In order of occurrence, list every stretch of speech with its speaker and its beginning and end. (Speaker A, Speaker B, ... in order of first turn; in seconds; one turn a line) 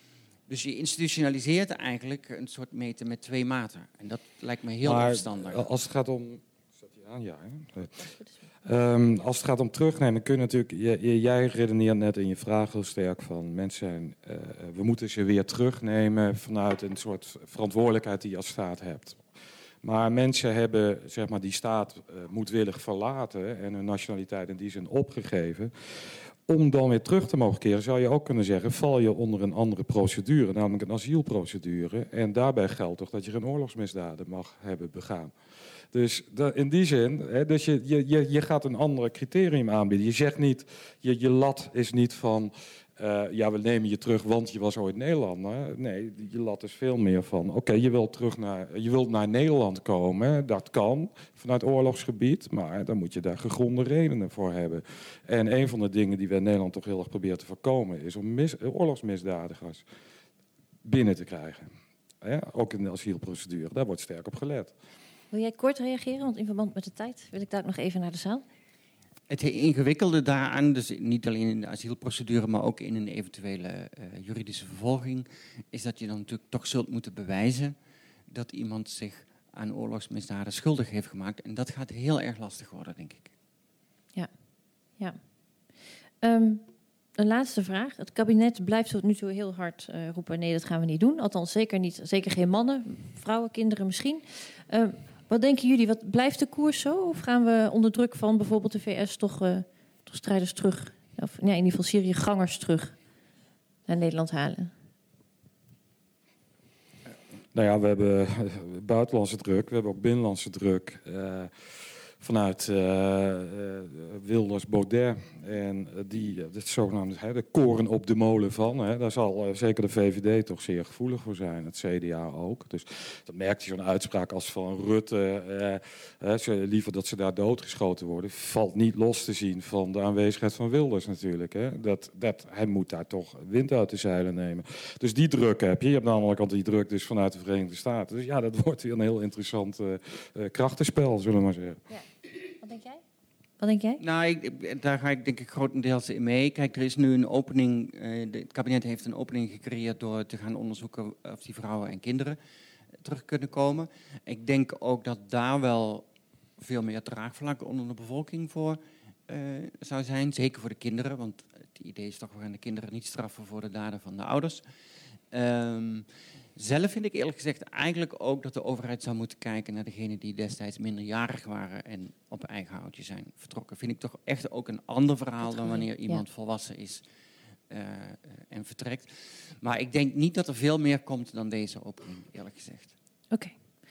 Speaker A: 0.5-5.7
Speaker B: 4.8-8.1
Speaker B: 8.7-19.2
Speaker B: 19.8-25.7
Speaker B: 26.5-35.3
Speaker B: 35.9-59.8
Speaker B: 60.9-61.7
Speaker B: 62.2-64.7
Speaker C: 65.3-68.4
Speaker A: 69.3-77.8
Speaker A: 78.3-83.3
Speaker C: 86.2-86.6
Speaker C: 87.2-103.0
Speaker C: 103.9-104.7
Speaker B: 107.5-141.8
Speaker C: 142.6-143.0
Speaker C: 143.6-144.0
Speaker A: 144.0-152.4
Speaker A: 153.0-156.1
Speaker A: 156.6-164.6
Speaker A: 165.3-177.0
Speaker C: 175.4-176.2
Speaker A: 177.7-182.9